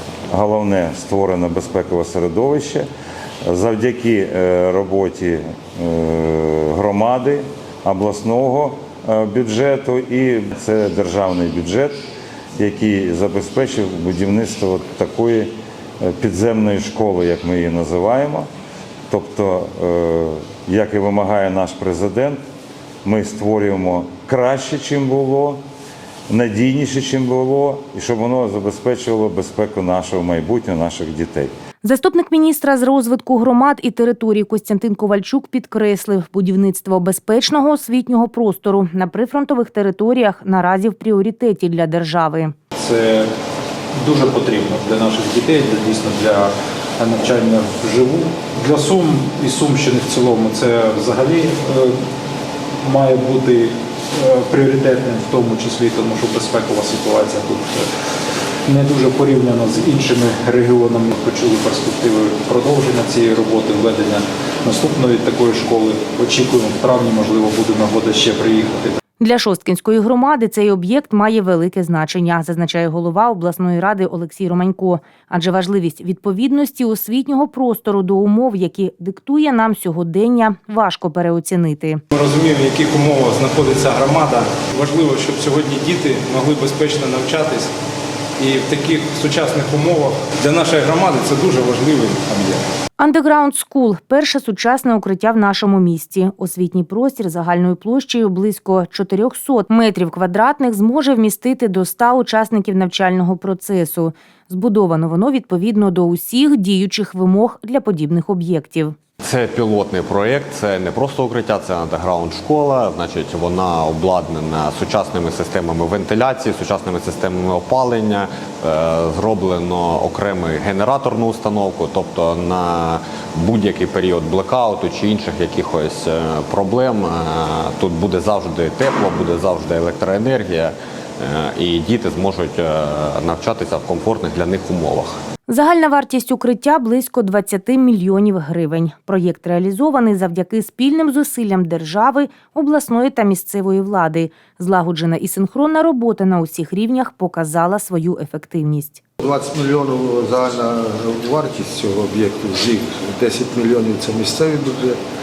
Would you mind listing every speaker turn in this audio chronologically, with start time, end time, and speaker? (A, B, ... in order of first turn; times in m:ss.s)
0:00.3-0:02.9 A
0:03.4-0:11.9 A
0:12.6-0:18.5 A
0:19.1-0:22.4 A
0:23.0-0:25.6 A
0:26.3-0:31.5 A
0:31.8-0:42.5 B
0:42.8-0:43.3 C
0:44.0-0:52.0 C
0:52.8-0:57.9 C
0:58.7-1:09.0 C
1:09.2-1:22.0 B
1:22.1-1:27.7 D
1:28.4-1:32.6 D
1:33.0-1:48.9 B
1:49.2-2:15.1 E
2:15.5-2:29.0 B
2:29.2-2:35.0 F